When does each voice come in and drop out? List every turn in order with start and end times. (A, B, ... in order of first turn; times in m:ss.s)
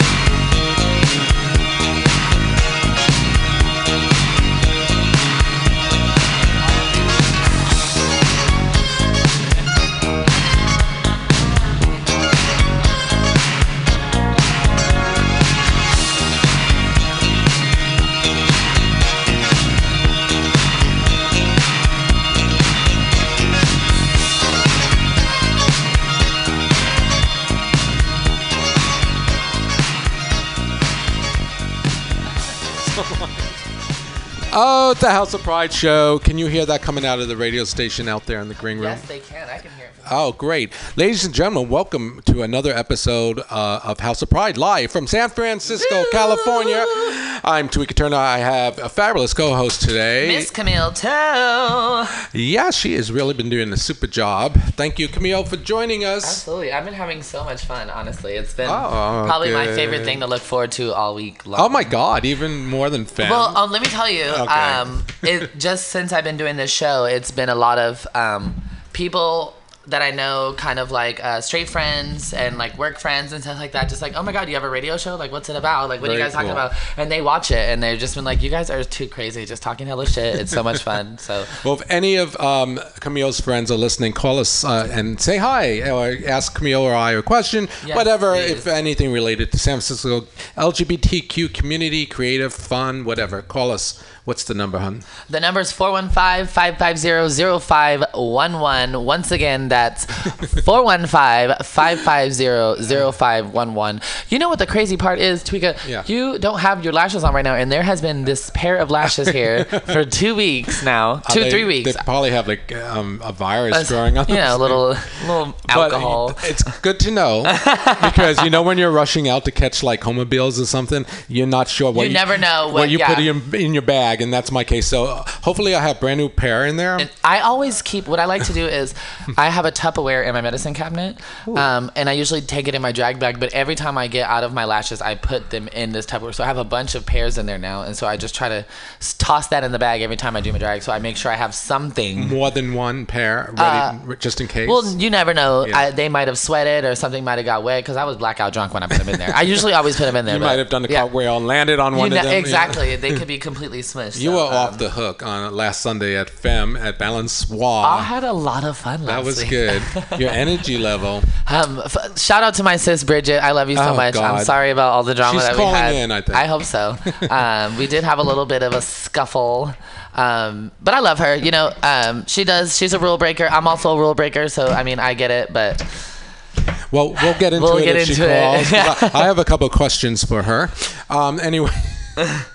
0:32.8-0:33.5 A
0:34.5-0:39.0 A
0:38.7-0:40.1 B
0:40.1-0:50.5 A
0:45.7-0:47.0 B
0:50.2-0:52.1 B
0:52.3-0:56.4 A
0:56.2-1:01.8 B
0:58.6-1:00.2 A
1:01.6-1:03.6 A
1:03.2-1:21.5 B
1:04.3-1:05.3 A
1:16.0-1:16.6 A
1:21.6-1:35.0 A
1:27.8-1:28.7 B
1:35.3-1:52.0 B
1:49.0-1:49.8 A
1:51.2-1:54.9 A
1:53.7-1:56.5 B
1:55.7-2:07.1 A
1:57.5-1:58.3 B
2:01.9-2:03.3 B
2:07.0-2:22.4 B
2:22.2-2:25.0 A
2:23.6-2:23.9 B
2:24.6-2:31.0 B
2:30.2-2:33.2 A
2:31.9-2:34.8 B
2:34.1-2:38.1 A
2:37.8-2:40.2 B
2:39.0-2:41.3 A
2:41.4-2:55.8 B
2:43.7-2:44.5 A
2:45.2-2:46.4 A
2:56.9-3:02.2 A
2:57.6-2:59.3 B